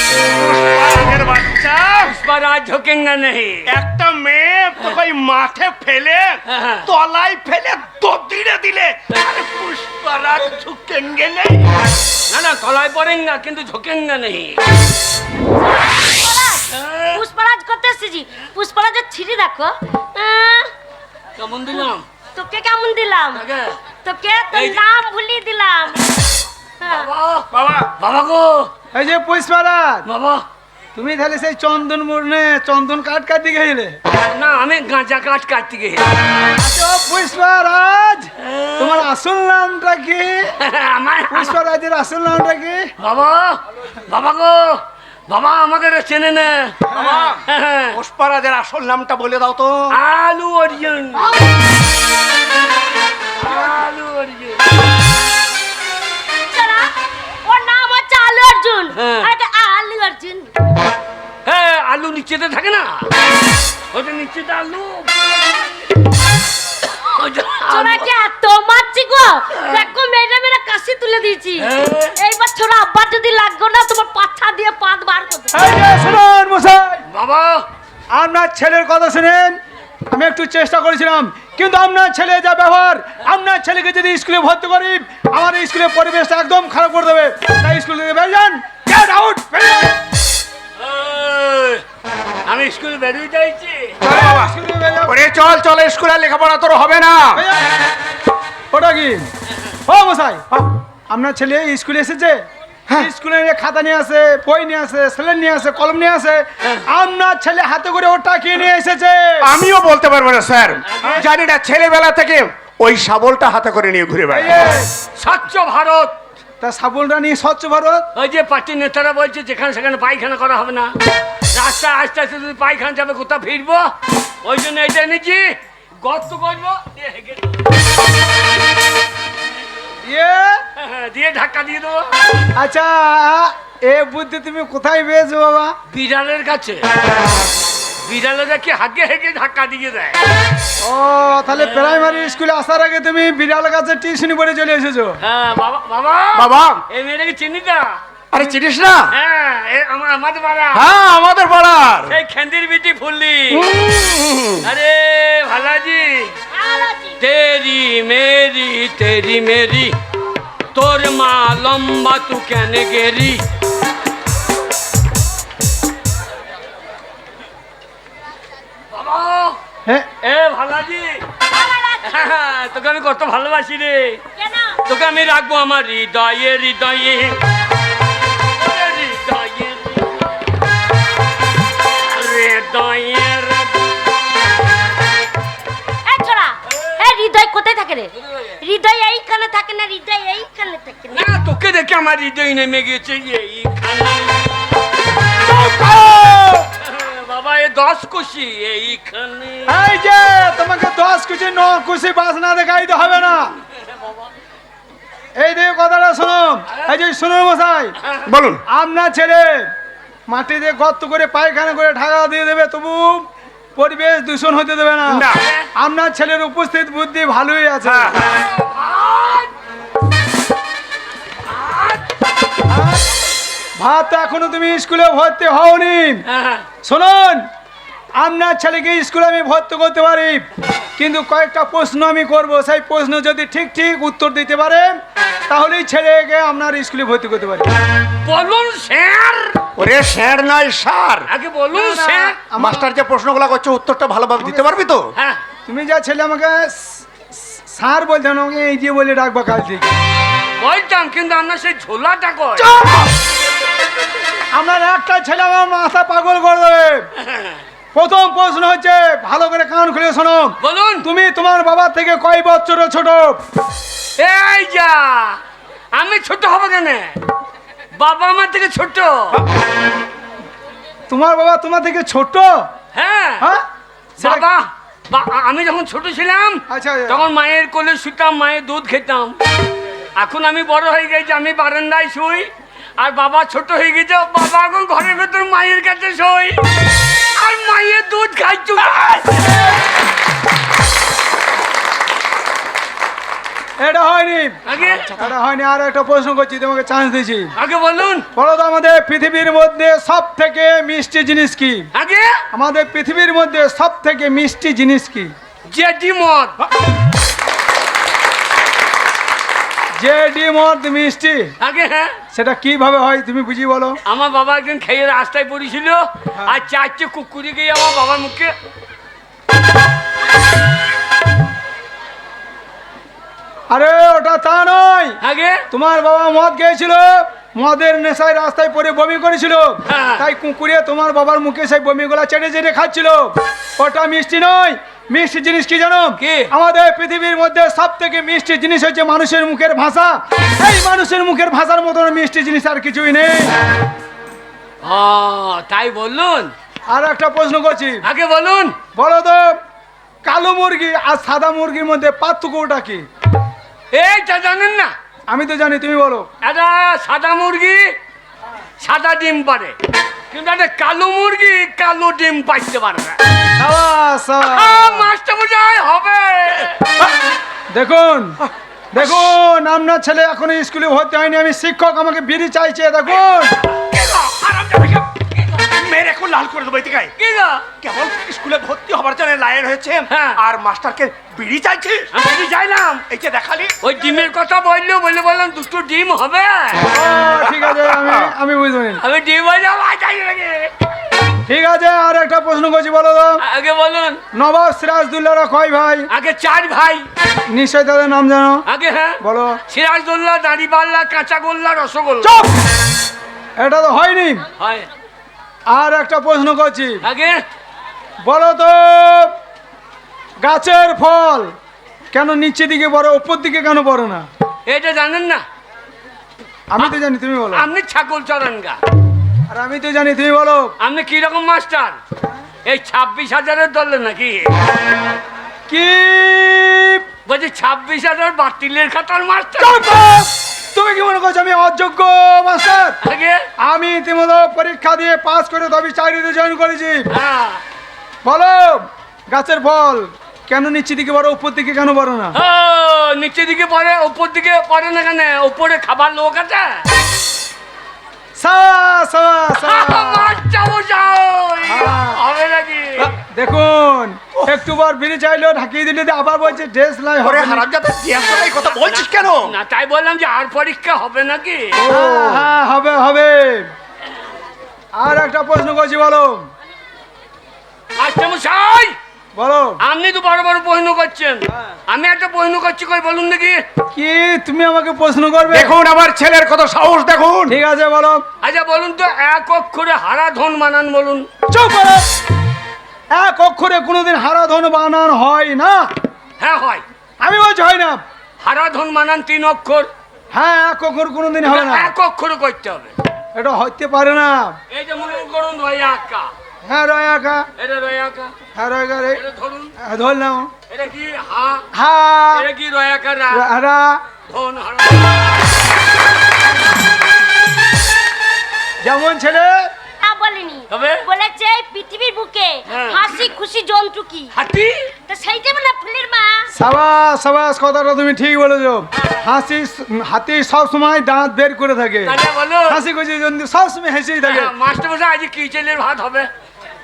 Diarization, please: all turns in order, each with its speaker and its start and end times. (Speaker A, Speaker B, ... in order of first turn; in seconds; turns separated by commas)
Speaker A: 0.2-2.1, Speaker B: 2.0-3.6, Speaker A: 3.7-11.7, Speaker B: 6.5-6.9, Speaker B: 12.3-14.6, Speaker C: 15.6-20.7, Speaker B: 16.7-17.2, Speaker B: 21.4-22.0, Speaker C: 22.3-23.4, Speaker B: 23.3-23.8, Speaker C: 24.0-26.2, Speaker B: 24.5-24.8, Speaker C: 26.8-27.1, Speaker B: 26.8-28.7, Speaker A: 27.5-27.9, Speaker D: 28.9-30.0, Speaker B: 30.0-30.4, Speaker D: 30.9-34.0, Speaker B: 34.1-36.1, Speaker D: 36.5-40.5, Speaker B: 38.4-39.0, Speaker B: 40.6-41.6, Speaker D: 41.3-42.9, Speaker B: 43.0-48.0, Speaker A: 46.9-49.9, Speaker B: 49.9-51.3, Speaker B: 53.4-54.7, Speaker C: 56.5-56.9, Speaker C: 57.4-60.5, Speaker B: 59.0-59.3, Speaker B: 61.4-63.1, Speaker B: 63.9-65.7, Speaker B: 67.0-68.1, Speaker C: 67.5-75.6, Speaker B: 69.5-69.8, Speaker B: 71.6-72.2, Speaker D: 75.5-77.0, Speaker B: 77.1-77.6, Speaker D: 78.1-90.0, Speaker B: 90.8-91.8, Speaker B: 92.5-94.0, Speaker D: 94.0-95.2, Speaker A: 94.0-94.5, Speaker A: 95.0-97.4, Speaker D: 97.3-97.7, Speaker D: 98.7-99.2, Speaker D: 99.8-100.5, Speaker D: 101.1-109.5, Speaker A: 109.4-114.5, Speaker B: 110.9-111.2, Speaker D: 111.0-111.3, Speaker D: 114.3-114.9, Speaker B: 115.2-116.2, Speaker D: 116.6-118.1, Speaker B: 118.1-120.9, Speaker B: 121.5-123.9, Speaker B: 124.4-127.6, Speaker D: 130.0-130.6, Speaker B: 130.8-132.1, Speaker D: 132.5-135.8, Speaker B: 135.9-136.9, Speaker B: 138.0-140.2, Speaker D: 140.8-145.2, Speaker B: 141.6-142.0, Speaker B: 145.2-148.0, Speaker A: 146.3-146.8, Speaker A: 148.3-149.1, Speaker B: 149.1-150.8, Speaker A: 150.7-152.2, Speaker B: 152.1-153.7, Speaker A: 153.5-154.7, Speaker B: 154.6-156.3, Speaker C: 156.5-157.2, Speaker B: 157.2-159.9, Speaker B: 160.7-163.4, Speaker B: 168.9-169.6, Speaker B: 170.2-171.2, Speaker C: 171.5-172.3, Speaker B: 172.0-174.2, Speaker C: 174.4-174.8, Speaker B: 174.8-177.4, Speaker B: 178.6-180.4, Speaker B: 182.0-183.9, Speaker C: 186.0-191.3, Speaker B: 188.1-188.6, Speaker B: 191.1-194.7, Speaker D: 195.4-196.7, Speaker B: 196.8-199.8, Speaker D: 199.7-203.5, Speaker B: 203.9-204.2, Speaker D: 205.4-207.9, Speaker A: 208.2-208.6, Speaker D: 208.7-209.7, Speaker D: 210.3-218.1, Speaker A: 215.1-215.4, Speaker B: 215.3-215.7, Speaker A: 217.8-218.3, Speaker B: 218.2-219.5, Speaker B: 221.4-222.1, Speaker D: 222.7-223.1, Speaker D: 223.8-226.2, Speaker B: 226.2-226.7, Speaker D: 226.8-227.5, Speaker D: 228.2-230.4, Speaker D: 231.0-234.9, Speaker D: 235.5-237.7, Speaker B: 238.2-239.6, Speaker A: 239.8-241.3, Speaker B: 241.3-242.4, Speaker D: 241.7-242.9, Speaker A: 242.6-245.1, Speaker D: 244.4-244.6, Speaker B: 245.2-245.4, Speaker D: 245.7-249.9, Speaker B: 250.6-252.8, Speaker D: 252.6-253.1, Speaker D: 254.5-257.1, Speaker B: 257.2-257.6, Speaker D: 257.9-263.4, Speaker B: 260.6-261.1, Speaker B: 264.2-265.4, Speaker B: 265.9-267.2, Speaker B: 267.9-269.4, Speaker D: 271.1-272.7, Speaker B: 272.9-273.5, Speaker D: 273.4-273.6, Speaker D: 274.2-274.5, Speaker B: 274.2-279.4, Speaker D: 276.7-277.3, Speaker B: 280.1-286.6, Speaker B: 287.3-289.4, Speaker D: 289.3-289.6, Speaker D: 293.8-297.5, Speaker B: 294.6-295.2, Speaker B: 297.6-298.3, Speaker D: 298.3-301.9, Speaker B: 301.9-302.4, Speaker D: 302.5-305.3, Speaker B: 305.7-306.6, Speaker D: 310.0-311.5, Speaker B: 311.6-312.2, Speaker D: 312.3-314.0, Speaker B: 314.1-318.5, Speaker D: 323.7-325.2, Speaker B: 325.2-325.6, Speaker D: 325.7-343.5, Speaker B: 329.9-330.2, Speaker B: 336.2-336.5, Speaker B: 344.8-346.5, Speaker D: 346.9-348.0, Speaker B: 348.0-348.8, Speaker D: 348.9-349.6, Speaker D: 350.2-353.1, Speaker B: 353.9-354.9, Speaker D: 355.3-356.3, Speaker B: 356.4-357.9, Speaker B: 358.8-359.8, Speaker B: 360.3-363.2, Speaker D: 363.6-365.1, Speaker B: 364.4-366.8, Speaker D: 367.7-368.4, Speaker A: 368.5-369.3, Speaker D: 368.9-373.6, Speaker B: 373.7-374.5, Speaker A: 373.9-377.1, Speaker B: 377.2-377.6, Speaker A: 377.8-382.1, Speaker B: 380.1-380.4, Speaker B: 382.1-383.0, Speaker A: 383.1-383.9, Speaker B: 383.8-386.9, Speaker D: 386.8-389.0, Speaker A: 387.4-388.3, Speaker B: 389.0-390.7, Speaker D: 391.4-393.4, Speaker B: 393.4-394.2, Speaker D: 394.3-396.1, Speaker B: 396.1-397.1, Speaker D: 397.5-398.6, Speaker B: 398.6-402.3, Speaker D: 399.2-399.6, Speaker D: 402.2-402.6, Speaker D: 403.6-404.4, Speaker B: 404.6-404.9, Speaker D: 405.7-407.0, Speaker B: 407.0-407.4, Speaker D: 408.2-409.3, Speaker D: 410.4-411.5, Speaker D: 412.1-414.3, Speaker B: 414.6-415.4, Speaker D: 416.7-417.7, Speaker B: 417.5-418.8, Speaker D: 419.5-420.7, Speaker B: 420.8-422.0, Speaker B: 422.6-424.5, Speaker D: 425.7-427.0, Speaker B: 427.2-429.8, Speaker D: 429.6-433.0, Speaker B: 433.0-433.4, Speaker D: 433.6-437.1, Speaker B: 437.1-437.6, Speaker D: 438.2-442.4, Speaker B: 442.3-446.8, Speaker D: 448.4-450.4, Speaker B: 449.6-453.1, Speaker D: 451.6-452.2, Speaker D: 453.1-457.7, Speaker A: 457.2-459.5, Speaker B: 458.7-461.8, Speaker D: 461.8-463.7, Speaker A: 461.8-462.5, Speaker D: 464.9-466.5, Speaker B: 468.0-469.0, Speaker D: 469.3-469.8, Speaker B: 469.8-473.6, Speaker D: 473.9-475.8, Speaker A: 475.5-477.6, Speaker D: 477.5-478.2, Speaker B: 478.4-481.3, Speaker D: 481.5-482.1, Speaker D: 483.1-485.9, Speaker B: 486.4-486.8, Speaker D: 487.2-488.0, Speaker B: 488.4-489.9, Speaker D: 490.3-491.9, Speaker B: 491.4-492.9, Speaker D: 493.3-494.6, Speaker B: 494.7-496.3, Speaker D: 496.6-497.5, Speaker B: 497.6-498.3, Speaker D: 498.5-499.2, Speaker B: 499.1-499.7, Speaker D: 499.8-500.5, Speaker B: 500.7-501.7, Speaker D: 501.7-502.5, Speaker B: 502.3-503.4, Speaker D: 503.3-504.0, Speaker B: 504.3-505.3, Speaker D: 508.8-509.7, Speaker C: 510.0-514.3, Speaker B: 510.7-511.0, Speaker B: 512.7-513.2, Speaker B: 514.3-514.9, Speaker C: 515.1-516.5, Speaker D: 516.5-522.2, Speaker B: 522.0-522.8, Speaker D: 522.7-524.5, Speaker B: 524.2-526.3